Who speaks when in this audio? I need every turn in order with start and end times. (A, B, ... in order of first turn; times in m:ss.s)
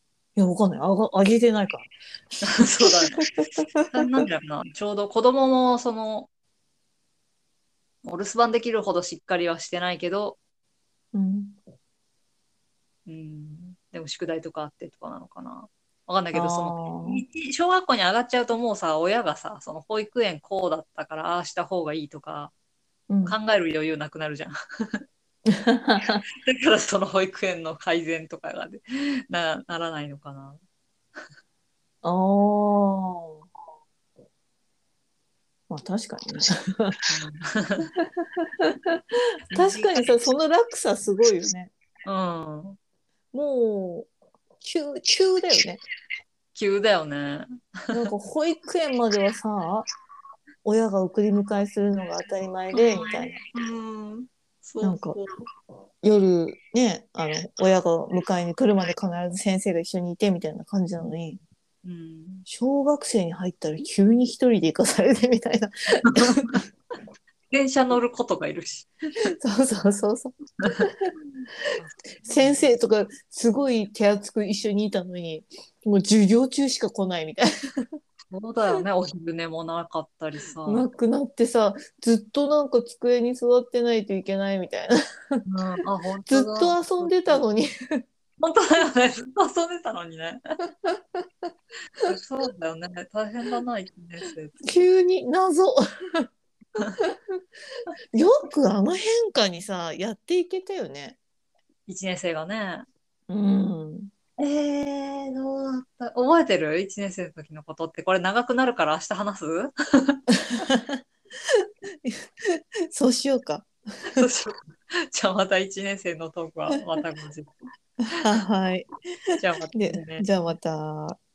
0:00.4-0:01.9 A
0:02.4-0:06.3 B
0:03.4-0:04.2 A
0:08.0-0:10.4 B
0:11.1-0:11.6 A
0:13.1-0:22.5 B
0:16.3-0:17.2 A
0:23.1-0:23.4 A
0:23.3-0:25.0 B
0:25.5-0:26.2 A
0:26.4-0:30.6 B
0:32.0-0:33.4 A
0:35.7-0:37.1 A
0:37.1-0:37.9 B
0:38.0-0:39.0 A
0:39.5-0:40.2 B
0:39.5-0:41.7 A
0:42.1-0:42.8 B
0:43.3-0:44.1 A
0:44.6-0:45.8 A
0:46.6-0:48.1 B
0:47.9-0:49.9 A
0:50.6-0:53.4 A
0:52.7-0:55.4 B
0:54.8-0:55.2 A
0:56.0-1:01.4 A
1:01.8-1:02.5 B
1:02.5-1:06.6 A
1:06.2-1:06.6 B
1:07.5-1:08.9 B
1:09.3-1:11.1 A
1:11.8-1:12.7 B
1:12.3-1:18.0 A
1:18.3-1:20.9 B
1:20.6-1:25.4 A
1:25.5-1:27.4 B
1:26.3-1:28.0 A
1:28.4-1:30.4 B
1:30.8-1:31.5 A
1:32.0-1:34.8 B
1:34.6-1:36.3 A
1:37.0-1:37.4 A
1:38.1-1:41.2 A
1:41.9-1:42.9 B
1:43.3-1:44.1 A
1:44.4-1:50.2 B
1:50.6-1:51.0 A
1:51.5-1:54.3 A
1:54.2-1:54.6 B
1:55.1-1:57.5 B
1:58.1-1:58.9 A
1:59.4-2:00.5 B
1:59.8-2:01.2 A